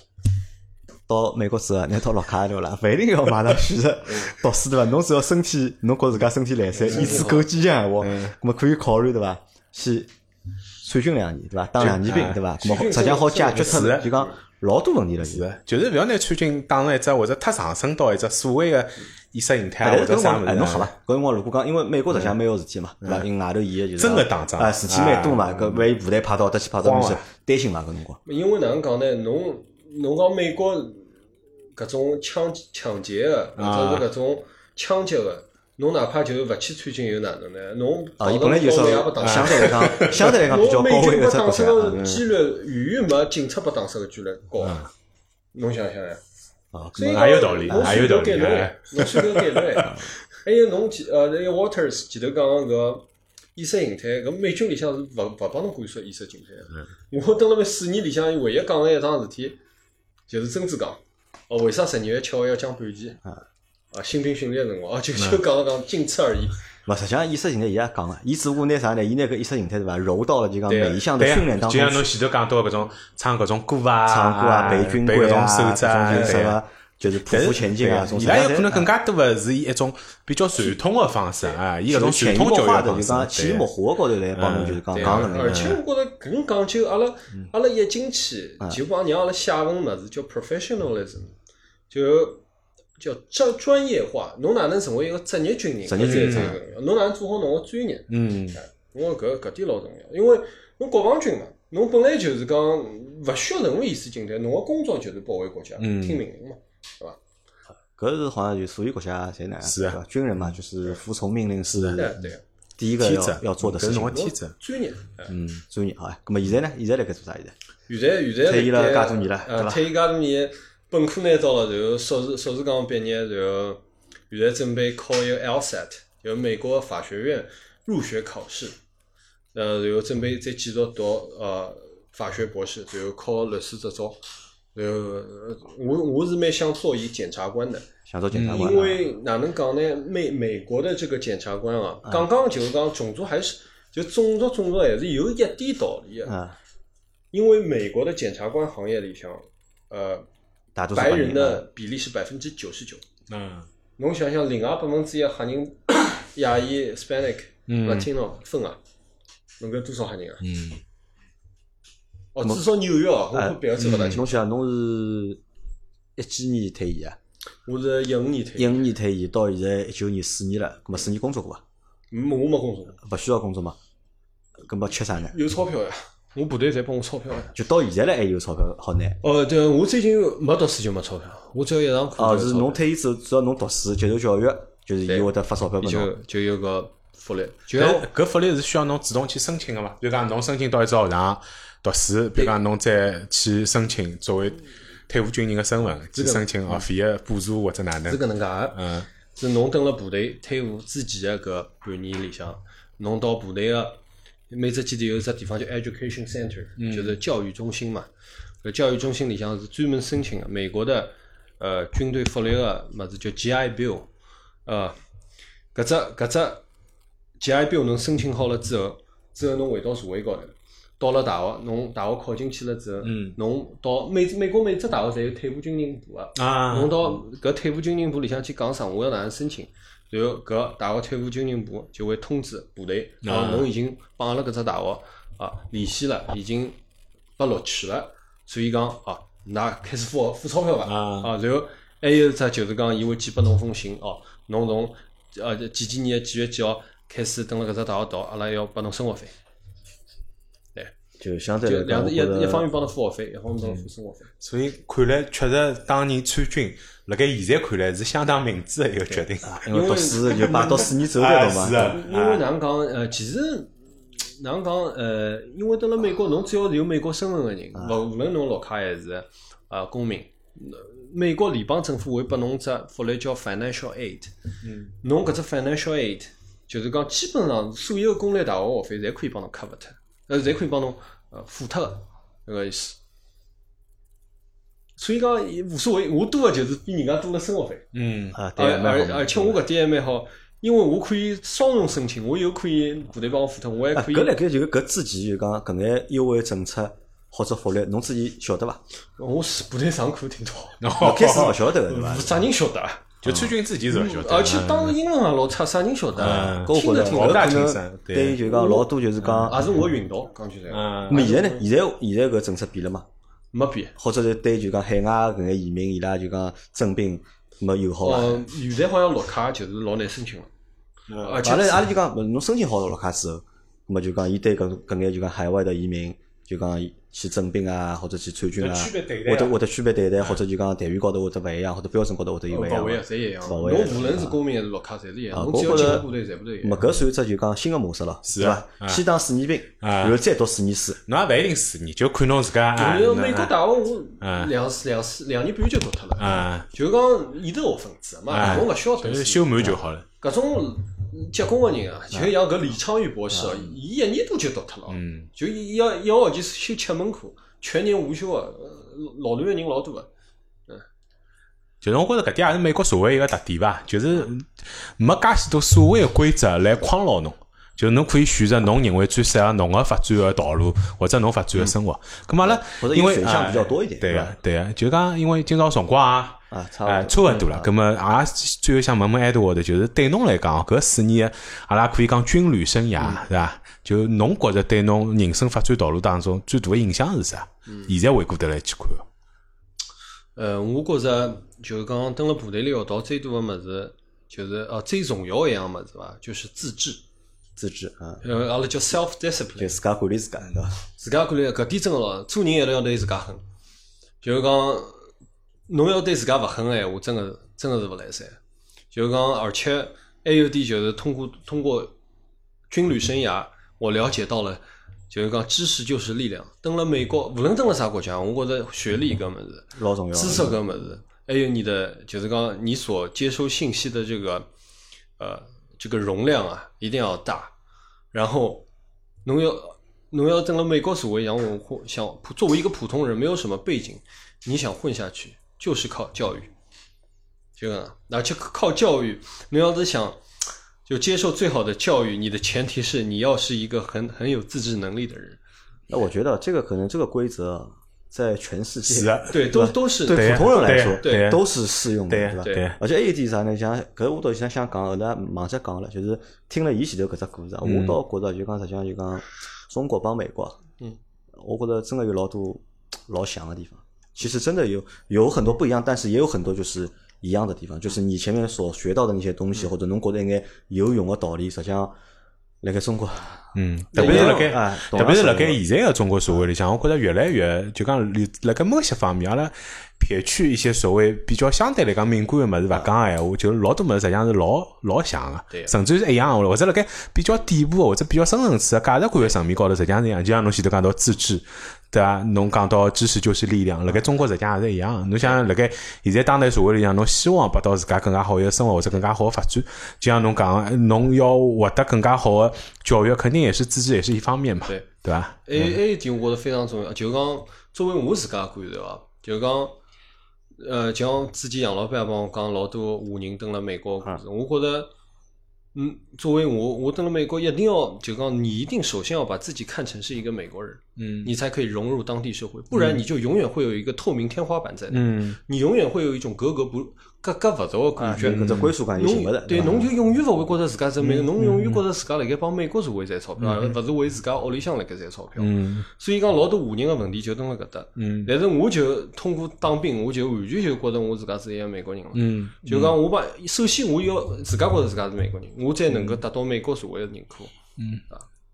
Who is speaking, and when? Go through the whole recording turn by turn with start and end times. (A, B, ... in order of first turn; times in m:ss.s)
0:01.1-0:10.1 A
0:06.8-0:07.5 B
0:08.0-0:08.4 C
0:10.8-0:15.4 A
0:11.8-0:12.4 C
0:12.6-0:14.4 B
0:13.7-0:14.1 C
0:15.2-0:20.9 C
0:19.8-0:28.2 A
0:24.0-0:25.9 C
0:26.8-0:27.2 C
0:28.3-0:31.1 B
0:31.8-0:44.8 B
0:33.6-0:34.1 C
0:38.2-0:42.1 A
0:39.2-0:40.4 C
0:42.0-0:42.2 C
0:44.6-0:44.9 C
0:45.5-0:46.2 B
0:46.7-0:48.1 A
0:47.0-0:59.6 B
0:47.0-0:50.0 C
1:00.3-1:03.2 B
1:03.9-1:06.6 B
1:05.2-1:05.4 C
1:06.9-1:12.1 A
1:10.7-1:11.0 B
1:11.2-1:16.6 C
1:14.1-1:18.9 A
1:17.3-1:23.7 C
1:21.9-1:25.7 A
1:24.4-1:25.8 C
1:24.9-1:31.4 B
1:31.9-1:32.4 B
1:33.0-1:47.2 B
1:35.9-1:36.6 A
1:36.0-1:36.6 C
1:38.1-1:38.6 C
1:45.8-1:46.2 C
1:48.0-1:52.1 A
1:49.6-1:50.0 C
1:51.7-1:52.3 C
1:52.0-1:52.4 B
1:52.8-1:54.3 A
1:53.0-1:54.6 C
1:54.1-1:55.3 B
1:55.3-1:55.6 C
1:55.7-1:57.5 A
1:57.9-2:08.8 B
1:58.4-1:59.8 A
2:09.5-2:14.2 B
2:14.8-2:17.9 B
2:18.1-2:19.0 A
2:18.3-2:18.7 C
2:18.4-2:26.3 B
2:26.3-2:26.6 A
2:27.3-2:30.3 B
2:30.8-2:31.6 A
2:31.0-2:33.0 B
2:33.3-2:33.7 C
2:34.0-2:38.8 B
2:37.7-2:38.1 C
2:39.6-2:40.4 B
2:40.4-2:40.8 C
2:42.4-2:44.4 B
2:43.3-2:45.4 A
2:43.8-2:44.2 C
2:46.2-2:47.2 A
2:47.7-2:48.8 B
2:48.6-2:51.6 A
2:52.1-2:53.0 B
2:53.0-2:53.8 A
2:54.7-2:55.4 A
2:55.2-2:57.5 B
2:57.6-2:59.2 A
2:59.2-3:02.8 B
3:02.2-3:06.1 A
3:05.1-3:08.1 B
3:07.8-3:18.2 C
3:16.1-3:16.8 B
3:18.1-3:18.8 B
3:18.7-3:19.1 C
3:19.4-3:28.1 B
3:26.8-3:27.2 C
3:28.6-3:34.1 B
3:34.7-3:35.0 B
3:35.7-3:36.6 B
3:37.4-3:56.8 B
3:43.0-3:43.4 C
3:46.4-3:47.2 C
3:53.2-3:53.7 C
3:57.4-4:09.3 B
4:00.8-4:01.3 C
4:11.2-4:12.7 A
4:11.6-4:14.3 B
4:14.4-4:19.6 C
4:19.1-4:21.0 B
4:19.4-4:22.0 A
4:21.1-4:22.4 C
4:21.8-4:34.3 B
4:34.6-4:35.0 C
4:35.0-4:43.0 B
4:45.0-4:47.9 B
4:47.9-4:48.4 C
4:48.4-4:49.6 A
4:48.6-4:54.4 B
4:53.9-4:58.8 A
4:59.2-5:00.8 B
5:00.8-5:01.6 C
5:01.0-5:02.4 A
5:01.8-5:07.7 B
5:03.2-5:05.0 C
5:06.2-5:08.4 C
5:06.2-5:09.7 A
5:08.4-5:08.9 B
5:09.2-5:09.5 C
5:09.4-5:11.6 B
5:10.7-5:11.2 C
5:11.1-5:13.1 A
5:13.5-5:13.9 B
5:14.0-5:18.4 A
5:18.0-5:20.5 B
5:21.1-5:21.4 C
5:21.2-5:21.9 B
5:21.4-5:34.4 A
5:28.6-5:29.6 C
5:32.5-5:36.8 B
5:35.3-5:36.1 A
5:36.6-5:41.0 A
5:38.3-5:39.0 C
5:39.8-5:40.2 C
5:41.0-5:43.6 C
5:42.8-6:00.1 B
5:44.2-5:44.5 C
5:46.2-5:46.7 C
5:48.3-5:50.1 C
5:53.4-5:53.7 A
5:54.9-5:55.3 C
6:01.8-6:29.1 C
6:12.4-6:14.3 A
6:16.5-6:17.7 A
6:27.7-6:27.9 B
6:30.4-6:37.0 B
6:37.6-6:38.2 A
6:38.2-6:39.8 B
6:39.6-6:40.8 A
6:41.0-6:43.4 B
6:44.2-6:45.0 B
6:45.7-6:48.4 B
6:48.9-6:52.0 B
6:52.7-7:04.5 B
6:59.8-7:00.6 A
7:05.2-7:07.6 B
7:08.1-7:08.7 B
7:09.2-7:16.5 B
7:17.6-7:20.2 B
7:20.9-7:25.4 B
7:25.9-7:40.6 A
7:28.9-7:29.4 C
7:29.3-7:31.3 B
7:30.1-7:31.4 C
7:32.1-7:32.8 C
7:37.6-7:38.0 C
7:41.4-7:52.0 A
7:52.6-7:55.6 A
7:53.6-8:25.8 C
7:54.0-7:54.3 B
8:25.5-8:29.8 B
8:30.6-8:34.9 B
8:35.7-9:07.5 B
8:41.0-8:41.3 C
8:42.7-8:43.0 C
8:44.9-8:45.4 C
8:48.0-8:49.9 A
8:48.2-8:48.7 C
8:51.0-8:51.8 C
8:53.4-8:53.8 C
8:55.4-8:55.9 C
8:58.0-8:58.3 C
9:02.1-9:03.0 C
9:07.8-9:08.0 C